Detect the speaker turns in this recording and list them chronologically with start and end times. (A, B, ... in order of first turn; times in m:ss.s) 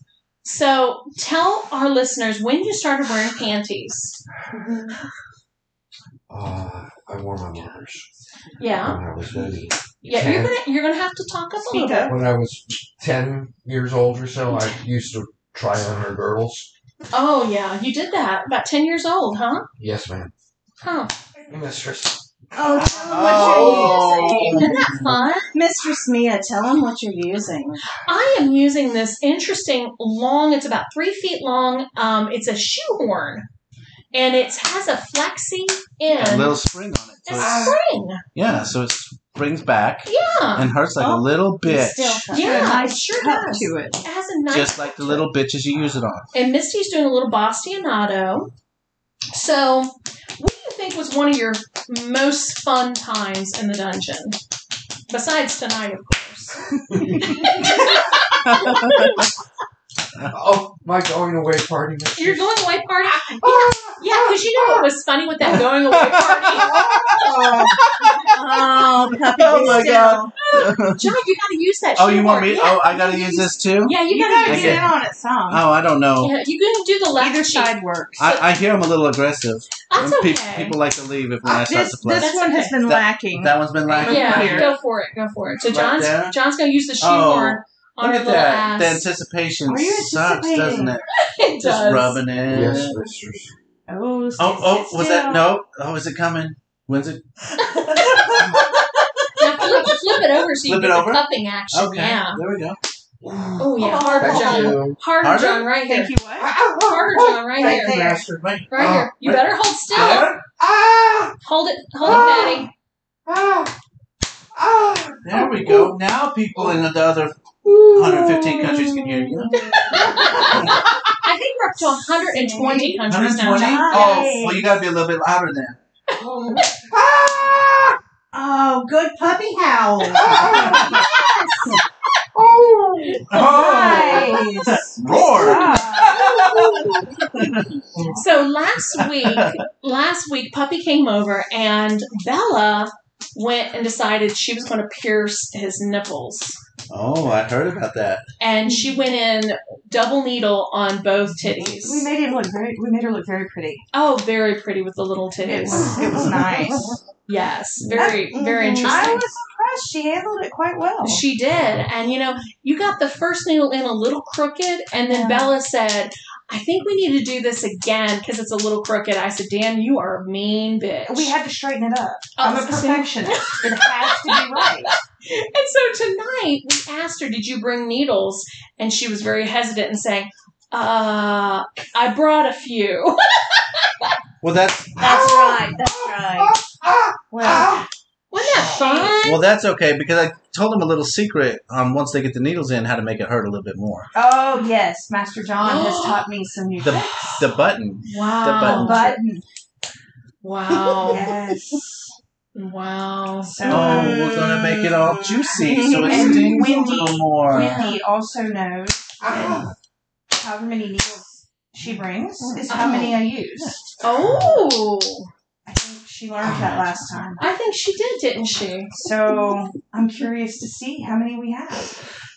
0:00.4-0:04.2 A
0:04.6-0:04.9 B
0:06.3-0:08.1 C
0:08.6-0:09.0 A
0:08.8-0:10.6 C
0:10.0-0:12.2 A
0:11.7-0:12.2 D
0:11.7-0:12.1 B
0:12.1-0:16.7 C
0:17.1-0:19.7 A
0:19.8-0:20.3 C
0:20.8-0:21.1 A
0:21.5-0:24.0 C
0:22.6-0:27.8 B
0:22.9-0:25.1 E
0:23.3-0:25.5 A
0:28.0-0:33.5 A
0:34.1-0:36.6 A
0:36.1-0:37.8 E
0:37.3-0:38.2 A
0:37.4-0:37.8 C
0:38.4-0:42.3 E
0:40.1-0:40.7 A
0:41.0-0:43.3 B
0:42.3-0:45.2 A
0:42.3-0:44.0 D
0:44.5-0:46.3 E
0:46.3-0:48.5 A
0:49.3-0:54.4 A
0:55.1-0:59.3 A
0:56.9-0:57.4 C
0:58.4-0:59.2 E
1:00.3-1:02.5 C
1:02.2-1:07.2 A
1:03.1-1:04.9 C
1:06.0-1:11.1 E
1:06.5-1:07.9 C
1:08.2-1:10.3 B
1:10.4-1:14.9 A
1:12.0-1:14.9 E
1:14.1-1:15.6 B
1:14.1-1:14.7 D
1:15.5-1:16.3 E
1:16.2-1:17.8 A
1:17.2-1:18.1 D
1:17.3-1:18.3 B
1:18.2-1:22.3 E
1:19.9-1:20.8 A
1:21.4-1:24.7 B
1:22.2-1:22.8 A
1:22.2-1:23.0 D
1:22.8-1:24.7 E
1:23.9-1:24.7 D
1:24.0-1:29.1 A
1:25.7-1:26.4 E
1:27.0-1:31.1 E
1:29.7-1:30.9 D
1:29.7-1:30.9 B
1:31.1-1:32.2 A
1:31.6-1:33.0 E
1:32.5-1:33.5 C
1:33.9-1:35.5 D
1:34.4-1:37.2 E
1:37.6-1:38.3 A
1:38.2-1:38.4 B
1:39.4-1:42.4 A
1:40.6-1:42.8 E
1:43.2-1:45.0 C
1:43.6-1:46.1 A
1:43.8-1:44.8 B
1:45.2-1:45.7 E
1:45.9-1:46.5 D
1:46.4-1:48.1 C
1:46.8-1:48.1 A
1:47.6-1:48.2 B
1:47.6-1:50.4 E
1:48.7-1:50.3 A
1:48.8-1:49.1 C
1:50.5-1:51.4 C
1:51.4-1:52.7 A
1:52.0-1:52.7 C
1:53.3-1:53.7 C
1:54.6-1:55.9 C
1:55.2-1:57.4 E
1:57.8-2:00.4 B
1:57.9-1:59.7 E
1:59.8-2:04.3 A
1:59.9-2:00.3 C
2:02.4-2:02.9 B
2:02.6-2:03.0 D
2:03.0-2:05.8 E
2:03.5-2:04.6 B
2:03.8-2:04.6 D
2:06.1-2:06.7 A
2:06.2-2:08.0 C
2:08.3-2:10.6 B
2:10.1-2:11.0 C
2:10.5-2:11.0 E
2:10.5-2:11.8 A
2:12.4-2:14.1 C
2:13.1-2:14.7 A
2:13.3-2:16.8 E
2:13.4-2:16.2 D
2:13.6-2:14.7 B
2:15.4-2:16.1 B
2:15.6-2:16.8 A
2:16.1-2:16.8 C
2:17.3-2:17.7 E
2:18.1-2:26.6 A
2:19.2-2:19.6 E
2:26.9-2:28.2 E
2:28.4-2:32.1 A
2:31.8-2:33.8 D
2:33.9-2:36.3 A
2:35.4-2:37.0 D
2:37.3-2:39.2 A
2:37.9-2:41.2 D
2:38.0-2:39.2 B
2:41.0-2:51.4 A
2:45.1-2:45.5 D
2:51.1-2:54.9 D
2:52.4-3:04.1 A
3:04.4-3:05.0 E
3:05.0-3:07.9 C
3:05.0-3:06.6 B
3:07.3-3:07.8 B
3:08.3-3:09.4 A
3:08.4-3:08.9 C
3:09.2-3:14.1 E
3:14.1-3:17.5 D
3:15.6-3:16.3 A
3:16.8-3:19.1 E
3:18.1-3:19.2 A
3:18.6-3:19.4 D
3:20.4-3:21.3 A
3:21.0-3:21.8 D
3:22.6-3:23.9 A
3:23.4-3:24.3 D
3:23.6-3:26.6 B
3:23.6-3:27.8 E
3:25.9-3:29.7 D
3:27.5-3:28.0 A
3:29.2-3:29.7 C
3:30.3-3:33.8 D
3:32.4-3:33.2 B
3:32.7-3:33.2 A
3:34.0-3:34.6 C
3:34.0-3:35.3 A
3:35.7-3:37.5 D
3:36.4-3:37.0 C
3:37.4-3:39.0 A
3:38.9-3:42.0 D